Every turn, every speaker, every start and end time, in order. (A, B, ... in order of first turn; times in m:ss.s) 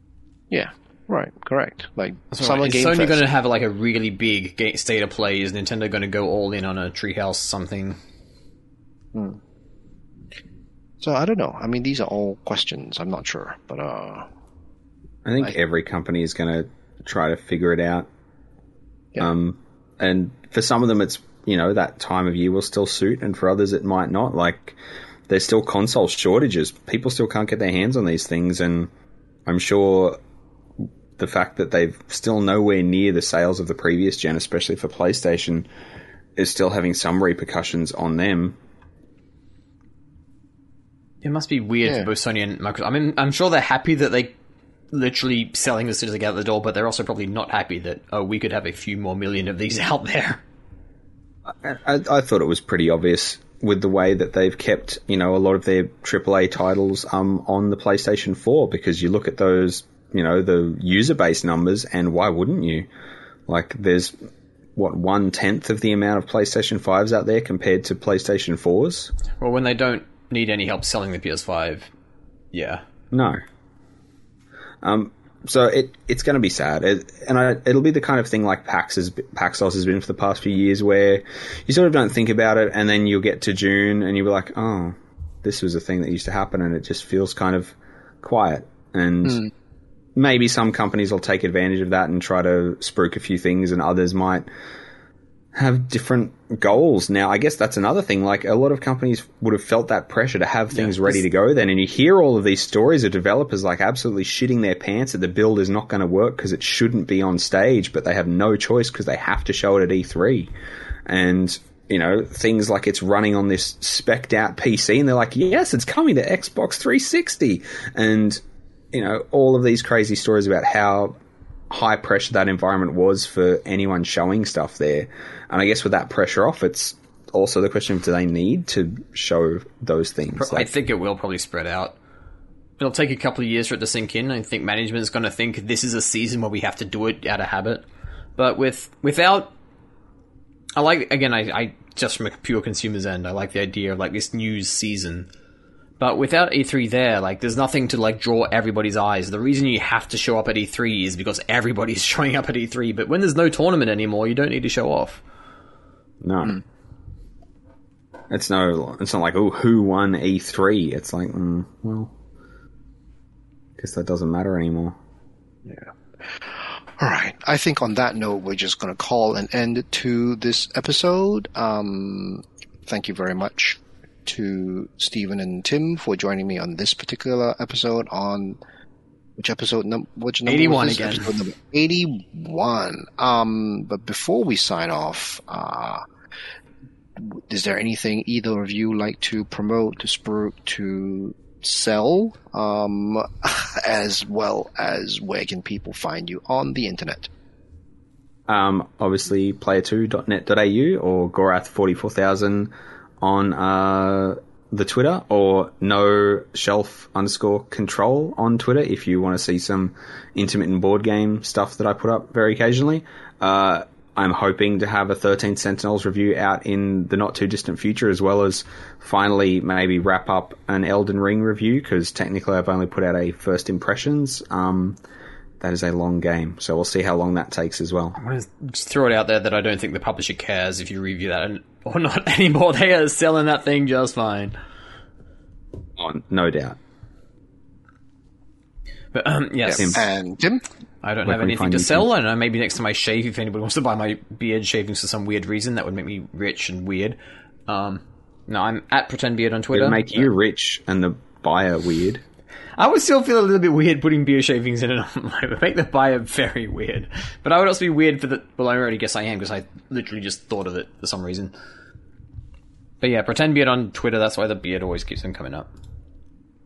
0:00.5-0:03.2 A
0:02.3-0:08.0 B
0:09.2-0:09.4 A
0:11.0-0:14.3 A
0:15.2-0:18.1 C
0:19.2-0:28.9 C
0:29.5-0:30.2 C
0:31.2-0:35.7 C
0:36.4-0:38.6 C
0:41.2-0:44.3 B
0:44.9-0:50.4 B
0:51.5-1:02.9 C
1:03.5-1:04.2 C
1:04.8-1:09.1 C
1:09.4-1:11.9 B
1:12.5-1:12.8 B
1:13.1-1:13.4 C
1:14.8-1:29.5 C
1:30.2-1:34.5 C
1:35.6-1:50.5 C
1:51.1-2:01.2 C
2:01.7-2:10.7 C
2:10.4-2:12.0 B
2:12.8-2:17.8 B
2:18.4-2:19.5 B
2:20.8-2:25.3 B
2:26.0-2:35.2 B
2:36.2-2:36.6 C
2:38.3-2:42.1 C
2:43.8-2:45.0 C
2:45.7-2:58.6 A
2:59.4-3:06.0 A
3:00.5-3:01.3 B
3:07.2-3:17.3 A
3:18.5-3:45.0 C
3:45.6-3:48.2 C
3:48.2-3:54.6 B
3:56.0-3:56.8 C
3:59.1-4:00.1 B
3:59.7-4:00.6 A
4:01.0-4:10.3 B
4:01.2-4:02.1 C
4:09.7-4:12.2 C
4:12.8-4:21.5 B
4:23.0-4:25.7 B